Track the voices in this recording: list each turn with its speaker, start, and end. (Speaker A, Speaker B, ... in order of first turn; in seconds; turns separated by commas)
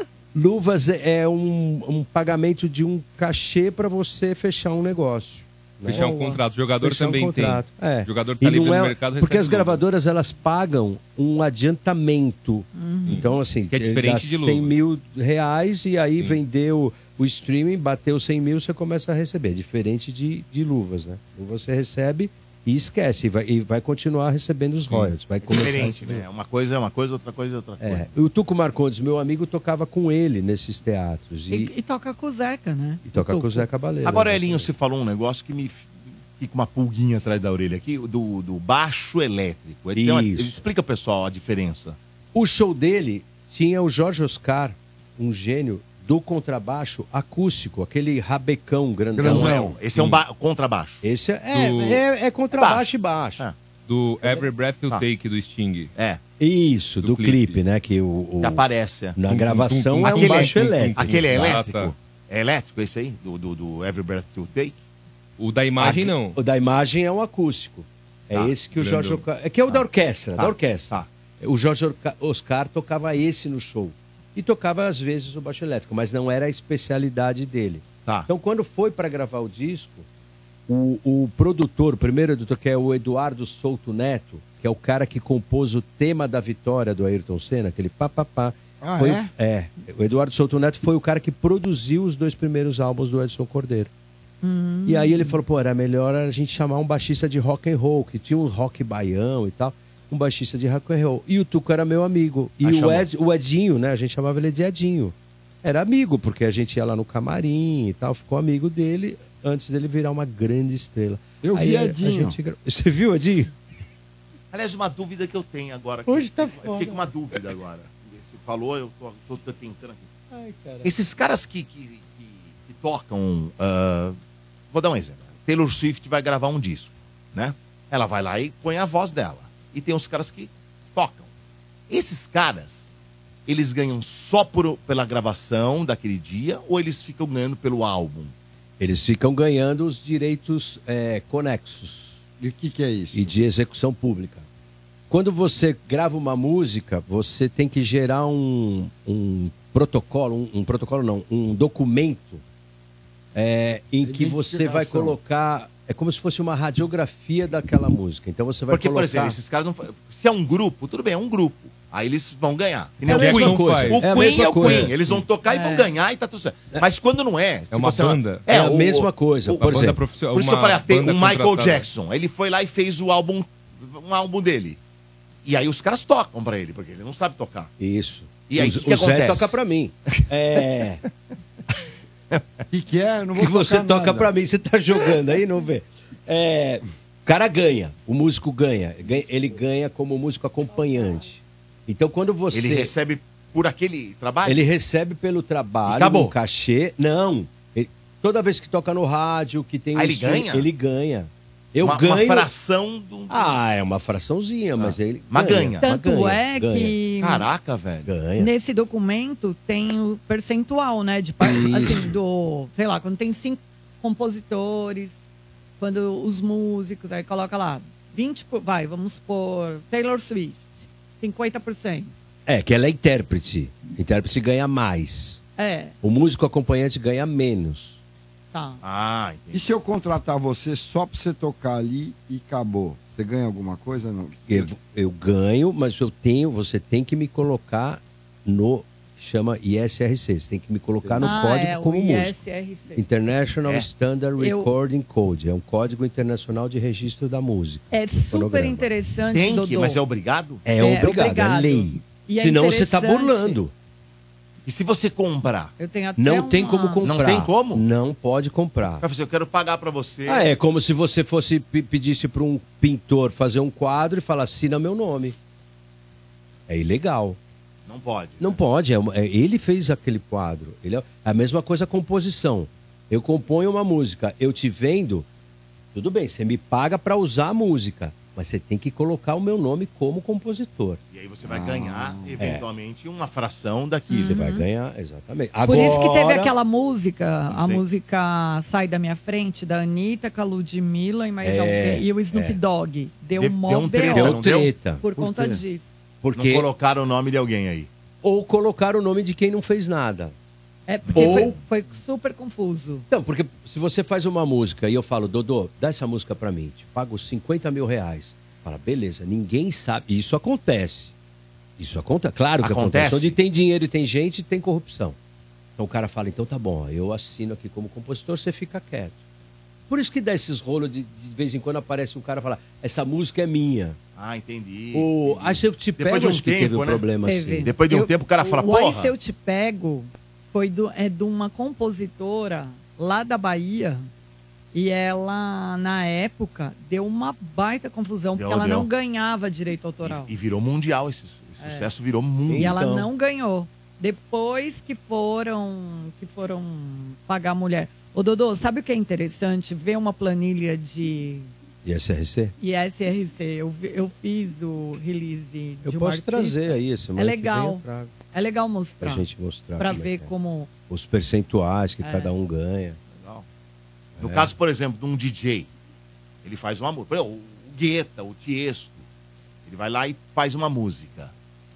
Speaker A: 0.3-6.2, Speaker B: 5.9-9.8, Speaker C: 5.9-6.4, Speaker A: 6.8-26.2, Speaker C: 12.7-13.3, Speaker B: 13.1-14.8, Speaker D: 25.4-28.1, Speaker A: 27.8-31.7, Speaker C: 31.5-33.7, Speaker A: 33.0-34.7, Speaker D: 34.0-42.0, Speaker A: 39.9-40.6, Speaker A: 42.3-50.2, Speaker E: 49.1-49.8, Speaker D: 49.2-51.0, Speaker A: 51.0-53.4, Speaker B: 51.5-52.0, Speaker D: 52.5-53.5, Speaker B: 53.9-55.9, Speaker A: 56.4-58.6, Speaker B: 57.0-57.6, Speaker D: 58.4-59.2, Speaker A: 59.1-61.5, Speaker B: 59.3-61.9, Speaker D: 60.0-64.8, Speaker B: 65.4-66.4, Speaker A: 65.8-80.1, Speaker B: 68.7-69.2, Speaker D: 70.4-71.1, Speaker A: 80.7-93.9, Speaker E: 88.8-89.3, Speaker C: 94.4-95.4, Speaker A: 94.8-113.5, Speaker D: 102.6-103.0, Speaker E: 111.4-112.4, Speaker D: 114.5-120.1, Speaker A: 116.1-117.1, Speaker A: 120.3-120.9, Speaker D: 120.8-124.2, Speaker D: 124.7-131.3, Speaker D: 131.9-132.9, Speaker D: 133.4-138.3, Speaker A: 138.8-142.2, Speaker E: 142.4-143.3, Speaker A: 143.1-144.4, Speaker A: 145.1-152.4, Speaker A: 153.3-159.4, Speaker E: 154.0-155.2, Speaker D: 158.7-174.8, Speaker A: 163.1-165.2, Speaker B: 163.1-164.0, Speaker B: 164.6-164.8, Speaker C: 165.4-165.9, Speaker B: 167.7-168.4, Speaker A: 168.5-170.0, Speaker B: 169.6-171.9, Speaker D: 175.4-177.7, Speaker A: 177.8-181.0, Speaker D: 178.5-179.6, Speaker E: 182.7-184.3, Speaker A: 183.3-192.9, Speaker D: 192.5-194.6, Speaker A: 194.4-202.5, Speaker D: 195.9-196.3, Speaker D: 199.9-200.7, Speaker D: 201.8-203.6, Speaker A: 203.3-207.0, Speaker D: 204.8-205.8, Speaker C: 205.8-207.5, Speaker D: 207.2-208.1, Speaker A: 208.0-208.5, Speaker C: 208.4-215.2, Speaker A: 211.4-212.1, Speaker C: 215.8-220.7, Speaker C: 221.2-222.1, Speaker A: 222.4-225.4, Speaker C: 225.6-225.9, Speaker A: 226.0-228.0, Speaker C: 228.5-228.8, Speaker D: 228.8-229.7, Speaker E: 229.5-234.5, Speaker A: 234.5-242.3, Speaker E: 241.0-241.3, Speaker C: 241.2-243.0, Speaker A: 242.9-248.9, Speaker C: 244.4-244.7, Speaker C: 247.9-250.0, Speaker D: 249.3-250.6, Speaker A: 250.6-253.7, Speaker C: 250.8-253.6, Speaker D: 254.6-255.7, Speaker C: 255.8-257.1, Speaker A: 256.2-259.1, Speaker D: 257.0-257.8, Speaker D: 259.0-260.5, Speaker A: 260.2-265.4, Speaker A: 266.7-267.4, Speaker D: 267.9-268.6, Speaker A: 268.4-275.3, Speaker A: 275.9-281.0, Speaker D: 281.1-284.4, Speaker E: 281.4-282.4, Speaker A: 282.4-282.6, Speaker C: 284.1-284.6, Speaker A: 284.1-286.5, Speaker C: 285.6-294.4, Speaker D: 287.5-287.8, Speaker A: 291.4-292.6, Speaker D: 293.4-294.7, Speaker A: 294.1-295.0, Speaker C: 295.0-296.0, Speaker E: 295.2-295.6, Speaker A: 296.2-296.6, Speaker D: 296.3-297.9, Speaker A: 298.2-300.3, Speaker C: 300.9-303.1, Speaker D: 301.1-301.6, Speaker A: 301.1-301.5, Speaker A: 303.1-311.1, Speaker A: 311.8-315.2, Speaker D: 312.6-313.3, Speaker A: 315.8-319.2, Speaker A: 319.9-324.0, Speaker D: 324.1-327.0, Speaker A: 324.9-327.7, Speaker C: 327.2-334.1, Speaker D: 327.6-329.1, Speaker C: 334.7-340.3, Speaker D: 338.4-338.9, Speaker D: 340.0-342.8, Speaker C: 341.6-341.9, Speaker A: 342.5-343.1, Speaker C: 342.6-351.5, Speaker A: 351.8-352.5, Speaker C: 352.6-359.2, Speaker A: 355.8-358.1, Speaker A: 359.0-360.3, Speaker C: 359.8-360.7, Speaker A: 360.9-363.0, Speaker C: 362.0-362.3, Speaker D: 363.1-363.4, Speaker A: 364.2-364.5, Speaker D: 364.2-365.7, Speaker D: 366.4-369.0, Speaker D: 369.6-371.3